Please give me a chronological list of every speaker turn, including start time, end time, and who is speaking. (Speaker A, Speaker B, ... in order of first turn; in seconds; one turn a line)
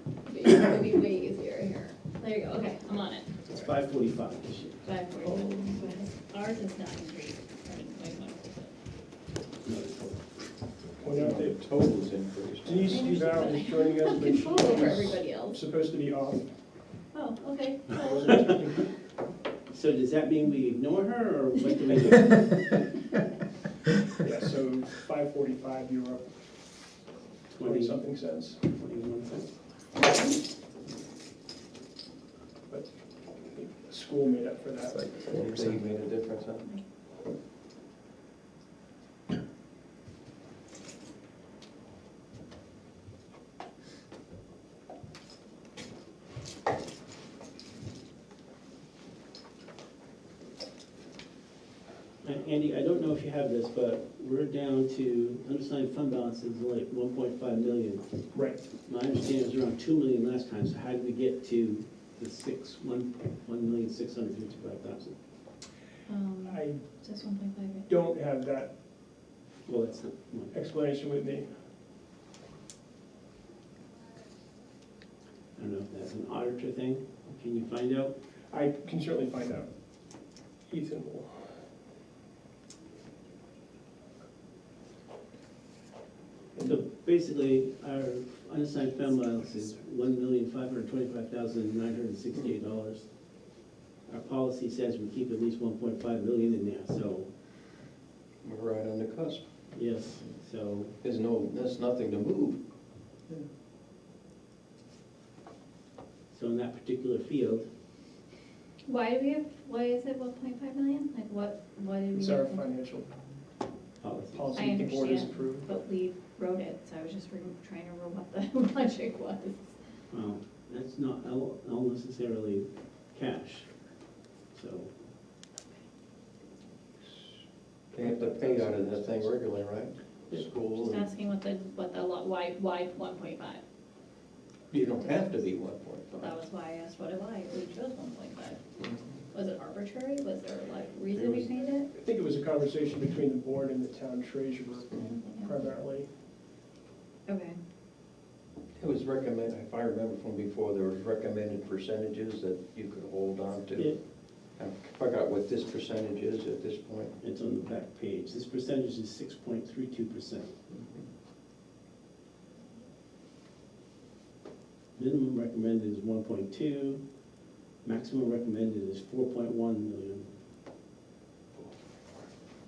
Speaker A: 0.3-3.4
Speaker B: 3.5-4.8
Speaker A: 4.8-8.7
Speaker C: 5.2-5.7
Speaker B: 9.6-10.3
Speaker C: 11.0-11.6
Speaker D: 11.2-13.1
Speaker C: 12.6-16.5
Speaker A: 12.9-15.6
Speaker A: 17.1-18.4
Speaker C: 17.9-18.9
Speaker B: 19.7-22.8
Speaker C: 24.2-26.3
Speaker B: 27.5-28.0
Speaker C: 27.6-28.6
Speaker B: 28.6-29.5
Speaker C: 32.7-35.3
Speaker D: 35.0-36.7
Speaker B: 52.2-58.0
Speaker C: 58.3-58.6
Speaker B: 58.9-65.2
Speaker A: 66.1-68.0
Speaker C: 66.4-66.8
Speaker C: 67.9-68.7
Speaker B: 69.7-70.5
Speaker C: 70.5-71.5
Speaker B: 75.6-78.1
Speaker C: 78.5-79.7
Speaker C: 80.7-81.4
Speaker C: 86.6-86.8
Speaker B: 86.7-93.1
Speaker B: 94.1-97.3
Speaker D: 98.4-99.4
Speaker B: 99.7-101.0
Speaker D: 101.0-102.6
Speaker B: 106.3-107.7
Speaker A: 108.8-112.7
Speaker C: 112.1-113.1
Speaker B: 114.0-114.7
Speaker C: 114.3-115.7
Speaker A: 114.5-119.7
Speaker B: 120.1-123.7
Speaker B: 124.5-124.9
Speaker D: 127.9-131.1
Speaker C: 128.0-129.3
Speaker A: 130.8-133.6
Speaker D: 134.7-136.3
Speaker A: 134.8-135.3
Speaker A: 136.1-138.6
Speaker A: 139.3-141.9
Speaker C: 141.9-146.1
Speaker A: 144.9-145.7
Speaker A: 147.3-147.6
Speaker D: 148.8-154.0
Speaker D: 154.5-157.2
Speaker B: 157.2-160.5
Speaker D: 160.7-161.0
Speaker B: 165.0-167.0
Speaker B: 167.8-170.3